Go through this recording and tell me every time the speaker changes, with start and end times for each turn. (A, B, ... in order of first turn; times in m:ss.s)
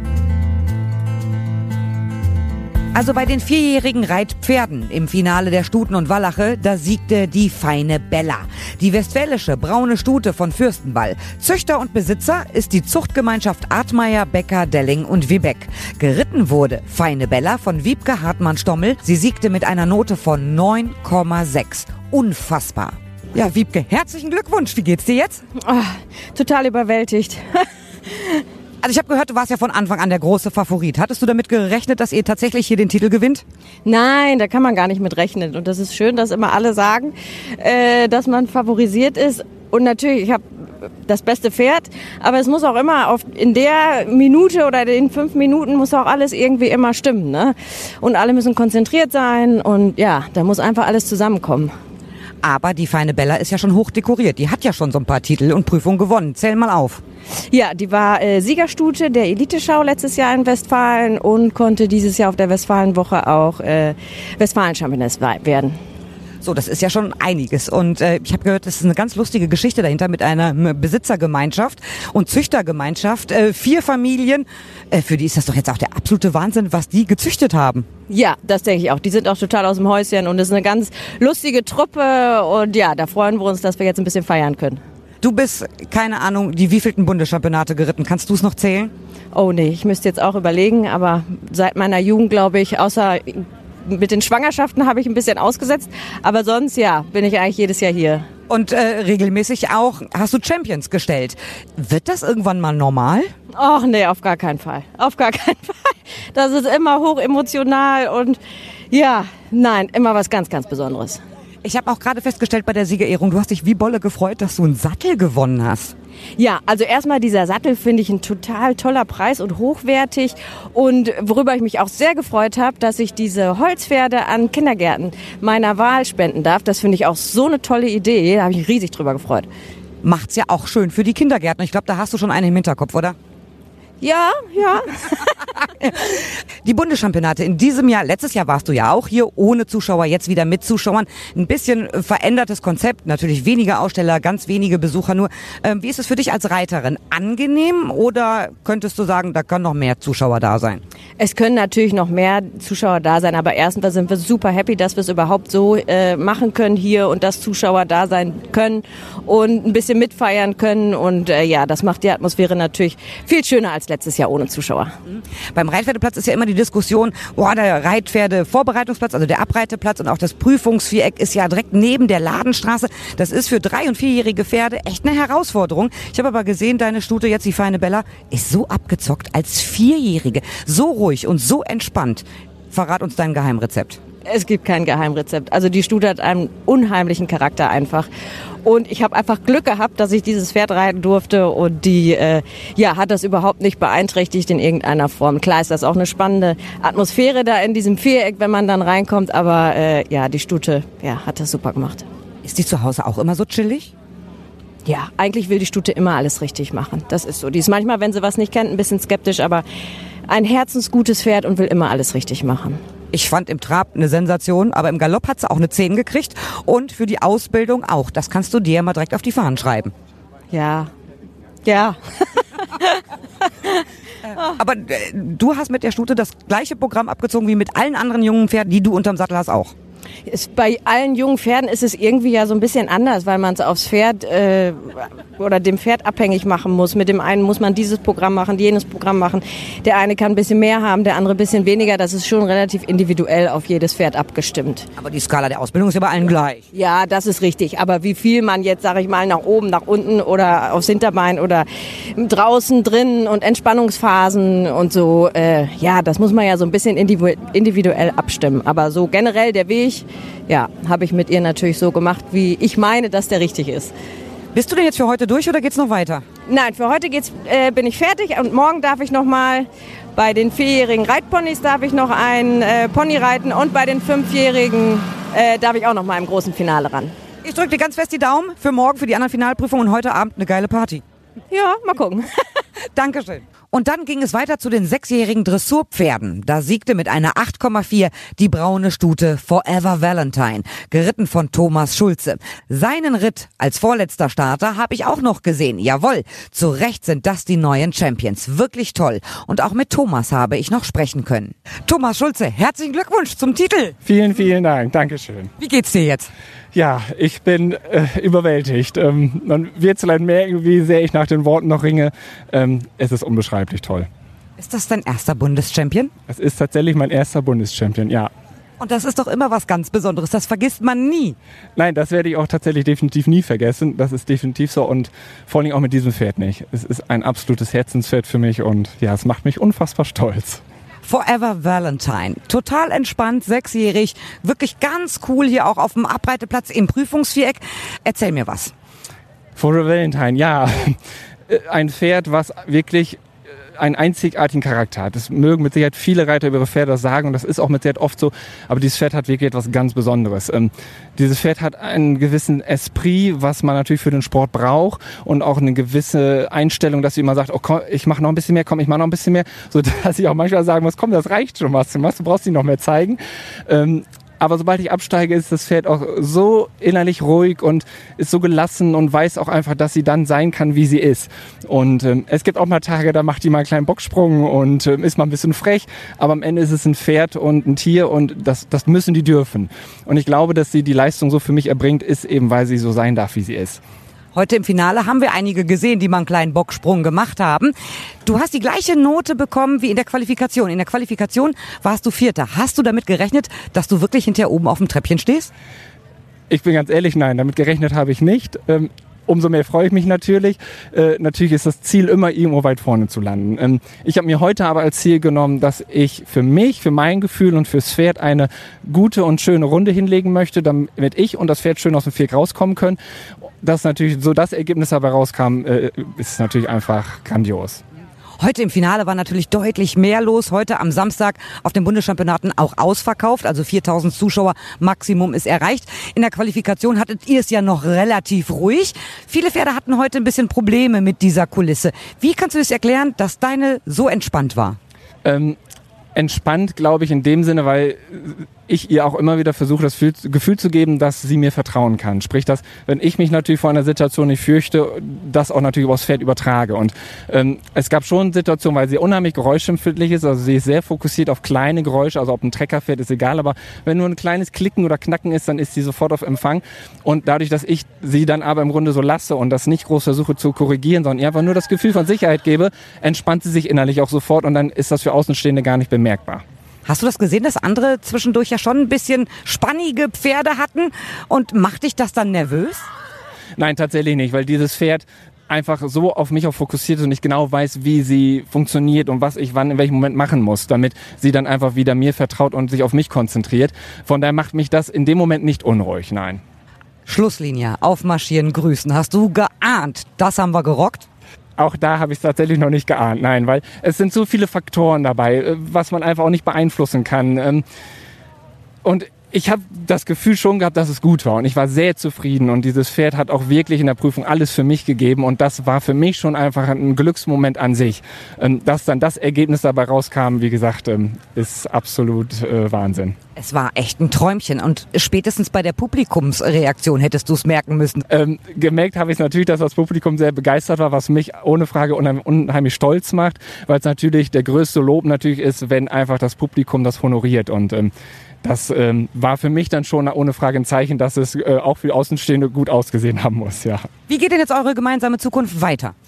0:02.9-0:25.4 A
0:25.7-0:28.4 B
0:28.8-0:33.4 A
0:33.8-0:40.4 B
0:41.1-0:51.7 B
0:52.4-0:57.0 A
0:57.5-1:05.8 B
1:06.4-1:17.9 A
1:18.1-1:24.8 B
1:25.2-1:28.9 A
1:29.3-1:38.3 B
1:38.5-1:43.3 A
1:43.5-1:48.4 B
1:48.9-1:51.2 B
1:51.6-1:55.9 A
1:56.4-2:09.5 B
2:10.0-2:13.2 A
2:14.0-2:15.4 B
2:15.8-2:30.8 A
2:31.2-2:44.9 B
2:45.1-3:04.0 A
3:04.3-3:08.1 B
3:08.6-3:22.0 B
3:22.4-3:23.9 A
3:24.9-3:29.6 B
3:30.3-3:32.8 B
3:33.1-3:39.9 A
3:40.5-3:40.9 B
3:41.6-3:44.5 B
3:44.3-3:49.7 A
3:50.3-4:04.9 B
4:05.0-4:06.6 A
4:06.7-4:23.9 B
4:24.6-4:26.2 A
4:26.5-4:37.2 B
4:37.4-4:41.0 A
4:41.5-4:42.2 B
4:43.0-5:04.0 A
5:04.0-5:05.5 C
5:05.6-5:06.3 A
5:06.7-5:14.1 C
5:14.6-5:16.1 A
5:16.3-5:18.3 C
5:18.8-5:21.4 A
5:21.8-5:30.6 C
5:31.0-5:38.7 A
5:39.6-5:41.0 C
5:41.5-5:43.2 C
5:43.8-6:23.8 C
6:24.4-6:27.7 A
6:28.2-6:35.5 A
6:36.5-6:53.0 C
6:53.6-6:57.8 C
6:58.4-7:14.8 A
7:15.2-7:15.6 C
7:16.2-7:46.4 C
7:46.9-7:52.8 A
7:53.6-8:06.4 C
8:07.1-8:11.1 A
8:11.6-8:17.6 C
8:18.8-8:33.2 C
8:33.4-8:38.0 A
8:38.1-8:47.9 C
8:48.4-8:53.9 C
8:54.1-8:55.9 A